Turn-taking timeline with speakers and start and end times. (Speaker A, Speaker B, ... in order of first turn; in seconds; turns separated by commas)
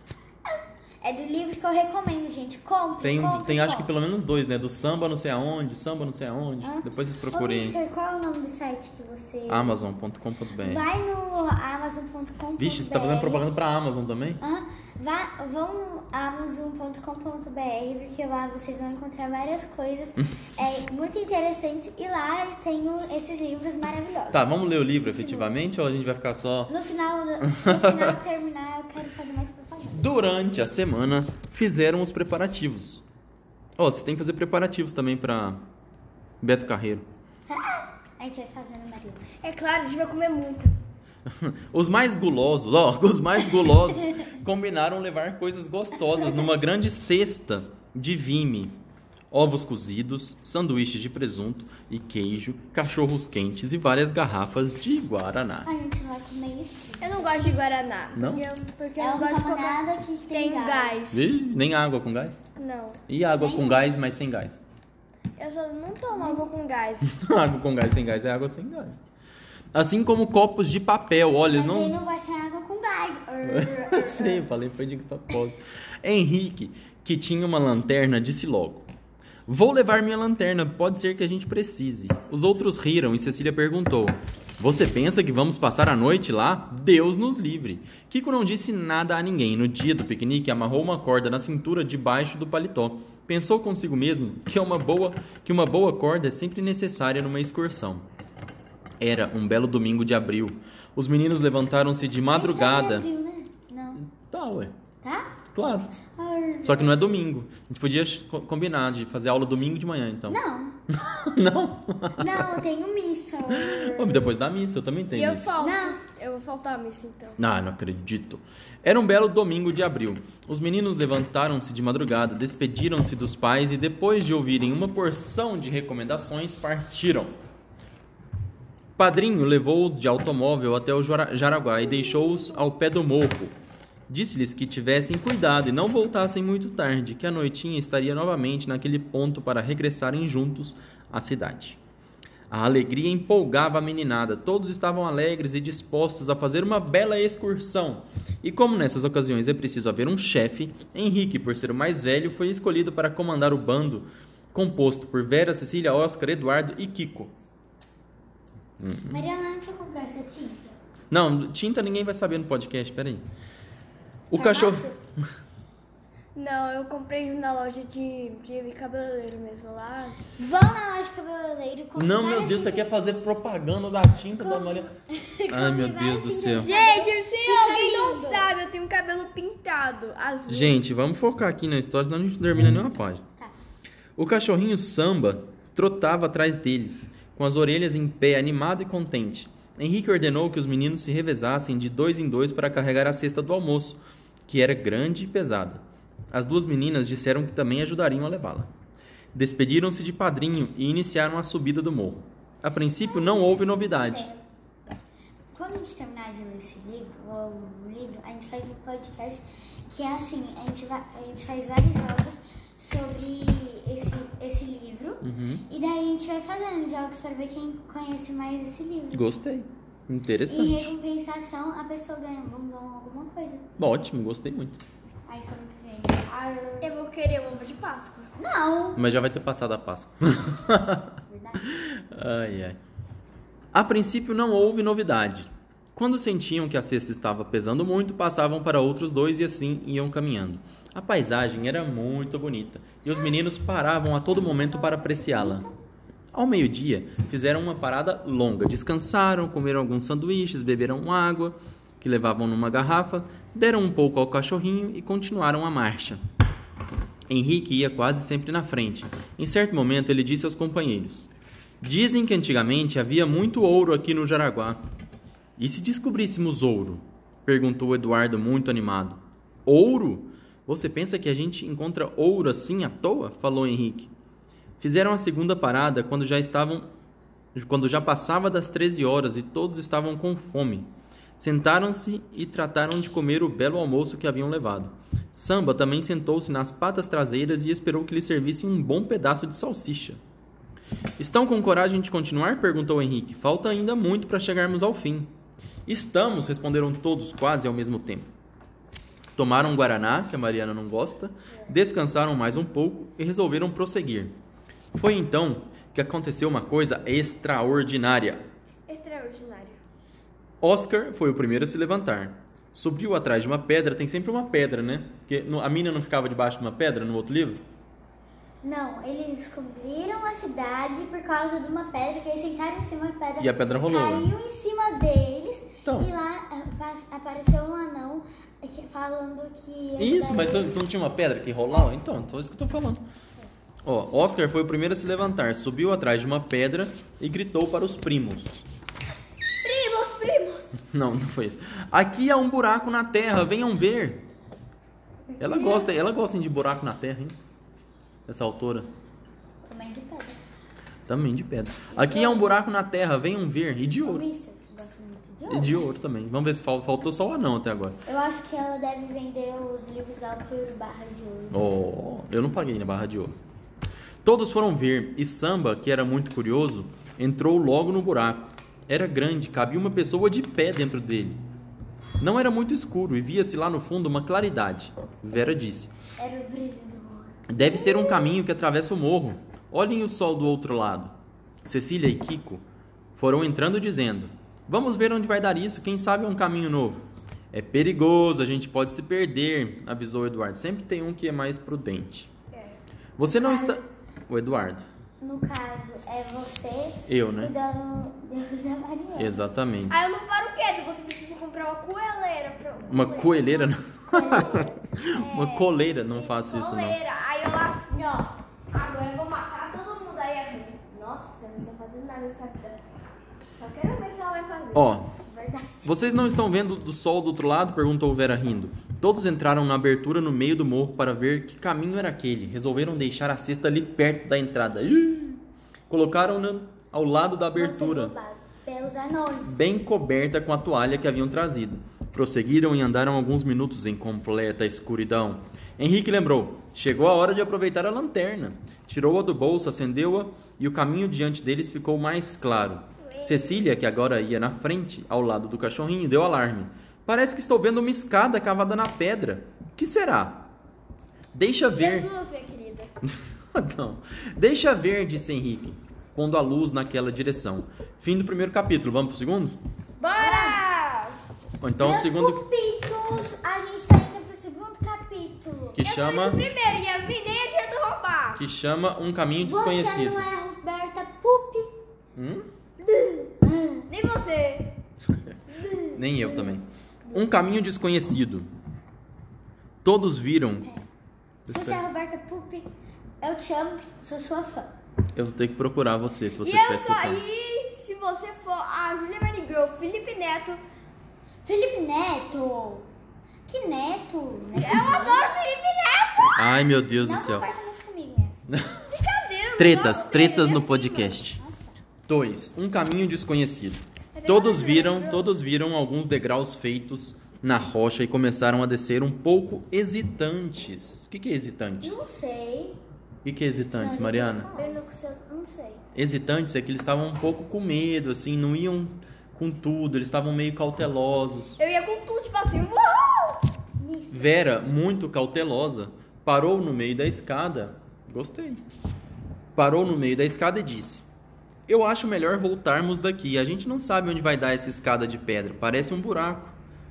Speaker A: 0.5-3.9, Speaker B: 3.0-7.8, Speaker A: 6.6-9.8, Speaker B: 9.5-10.8, Speaker A: 10.6-13.4, Speaker B: 12.6-14.4, Speaker A: 14.4-25.6, Speaker B: 24.3-26.7, Speaker A: 26.7-30.2, Speaker B: 27.5-28.0, Speaker B: 29.9-33.0, Speaker B: 33.8-35.6, Speaker B: 36.4-37.0, Speaker A: 37.5-39.2, Speaker C: 39.4-40.7, Speaker B: 41.3-48.8, Speaker A: 43.9-44.3, Speaker B: 49.3-55.7, Speaker A: 55.6-57.6, Speaker C: 57.0-61.3, Speaker B: 58.1-58.5, Speaker A: 59.0-61.1, Speaker B: 61.1-62.4, Speaker C: 62.5-63.0, Speaker B: 63.1-64.6, Speaker A: 63.4-63.9, Speaker C: 65.4-67.1, Speaker A: 66.1-66.4, Speaker B: 67.0-69.0, Speaker B: 69.7-72.0, Speaker A: 71.5-74.5, Speaker B: 73.4-78.8, Speaker B: 79.5-98.0, Speaker B: 99.0-103.1, Speaker A: 102.3-104.0, Speaker B: 104.1-104.8, Speaker A: 105.0-105.3, Speaker B: 105.5-105.9, Speaker A: 106.2-107.2, Speaker B: 106.6-110.4, Speaker A: 110.3-110.8, Speaker B: 110.9-112.6, Speaker A: 112.2-114.3, Speaker B: 113.5-115.5, Speaker C: 115.1-117.4, Speaker A: 115.6-116.0, Speaker B: 117.4-127.3, Speaker B: 129.0-133.5, Speaker B: 134.1-141.8, Speaker B: 142.5-157.3, Speaker B: 158.8-159.2, Speaker A: 159.1-160.7, Speaker B: 161.1-163.2, Speaker B: 164.3-164.9, Speaker A: 164.4-164.9, Speaker C: 166.3-170.2, Speaker A: 170.4-172.9, Speaker B: 172.0-174.9, Speaker A: 174.3-178.5, Speaker B: 175.5-176.7, Speaker C: 176.5-180.8, Speaker B: 180.5-183.2, Speaker B: 184.2-198.7, Speaker B: 199.3-204.2, Speaker A: 203.0-204.4, Speaker A: 205.5-219.3, Speaker B: 215.2-215.6, Speaker B: 219.1-220.9, Speaker A: 220.5-223.7, Speaker B: 223.8-224.8, Speaker A: 225.3-226.9, Speaker C: 226.8-228.3, Speaker A: 228.4-229.0, Speaker B: 228.9-232.8, Speaker A: 231.3-231.7, Speaker B: 233.7-245.7, Speaker A: 244.3-245.7, Speaker B: 246.3-256.2, Speaker B: 257.3-261.3, Speaker B: 261.8-264.8, Speaker B: 265.6-274.1, Speaker B: 274.8-276.9, Speaker B: 277.5-290.2, Speaker B: 291.2-295.3, Speaker B: 295.9-298.3, Speaker B: 299.4-304.4, Speaker B: 304.9-308.4, Speaker C: 308.9-309.8, Speaker B: 310.6-317.6, Speaker A: 318.6-330.8, Speaker B: 323.4-324.3, Speaker B: 325.8-326.1, Speaker B: 330.0-333.0, Speaker B: 333.8-338.6, Speaker C: 339.6-340.8, Speaker B: 340.8-344.2, Speaker A: 345.3-345.9, Speaker B: 345.4-347.4, Speaker B: 348.3-348.9, Speaker A: 349.6-350.4, Speaker B: 351.1-354.2, Speaker A: 351.9-352.6, Speaker A: 354.0-355.9, Speaker B: 355.5-358.0, Speaker A: 358.1-361.7, Speaker B: 361.5-363.4, Speaker B: 364.2-371.4, Speaker B: 372.2-375.9, Speaker A: 376.2-378.4, Speaker B: 377.5-381.1, Speaker B: 381.6-382.6, Speaker B: 383.1-392.3, Speaker C: 392.5-392.8, Speaker B: 393.2-394.9, Speaker A: 393.3-393.9, Speaker A: 395.2-399.4, Speaker B: 397.1-397.5, Speaker B: 399.1-399.9, Speaker C: 399.9-403.8, Speaker B: 402.9-407.0, Speaker A: 404.1-405.0, Speaker C: 405.1-412.8, Speaker C: 413.6-415.0, Speaker B: 414.7-415.1, Speaker A: 415.2-416.2, Speaker B: 415.8-428.1, Speaker A: 427.5-429.6, Speaker B: 429.5-450.5, Speaker C: 443.1-443.6, Speaker B: 451.3-452.1, Speaker C: 451.7-452.9, Speaker B: 453.0-459.6, Speaker C: 460.0-461.2, Speaker A: 460.1-460.6, Speaker B: 461.6-462.5, Speaker A: 461.8-465.8, Speaker B: 465.8-466.5, Speaker C: 465.8-468.4, Speaker B: 468.4-470.2, Speaker A: 469.4-471.7, Speaker B: 472.1-472.5, Speaker A: 473.4-473.8, Speaker C: 473.9-474.8, Speaker B: 475.0-475.4, Speaker B: 475.9-478.5, Speaker C: 477.0-477.4, Speaker B: 479.8-480.6, Speaker A: 480.5-480.9, Speaker B: 481.5-481.8, Speaker A: 481.5-482.7, Speaker A: 483.2-484.7, Speaker B: 485.1-487.2, Speaker C: 486.4-490.6, Speaker A: 491.4-492.9, Speaker A: 493.5-495.2, Speaker C: 494.6-496.5, Speaker B: 496.4-497.5, Speaker A: 497.0-498.4, Speaker B: 498.5-498.8, Speaker C: 498.8-500.8, Speaker B: 499.6-501.4, Speaker A: 500.6-501.8, Speaker B: 502.1-512.0, Speaker C: 504.1-505.3, Speaker A: 511.8-512.8, Speaker B: 513.2-514.5, Speaker A: 513.7-514.8, Speaker C: 514.5-515.8, Speaker B: 515.9-521.6, Speaker C: 521.6-523.4, Speaker A: 523.8-524.5, Speaker B: 524.1-528.6, Speaker B: 529.5-531.0, Speaker B: 531.7-536.5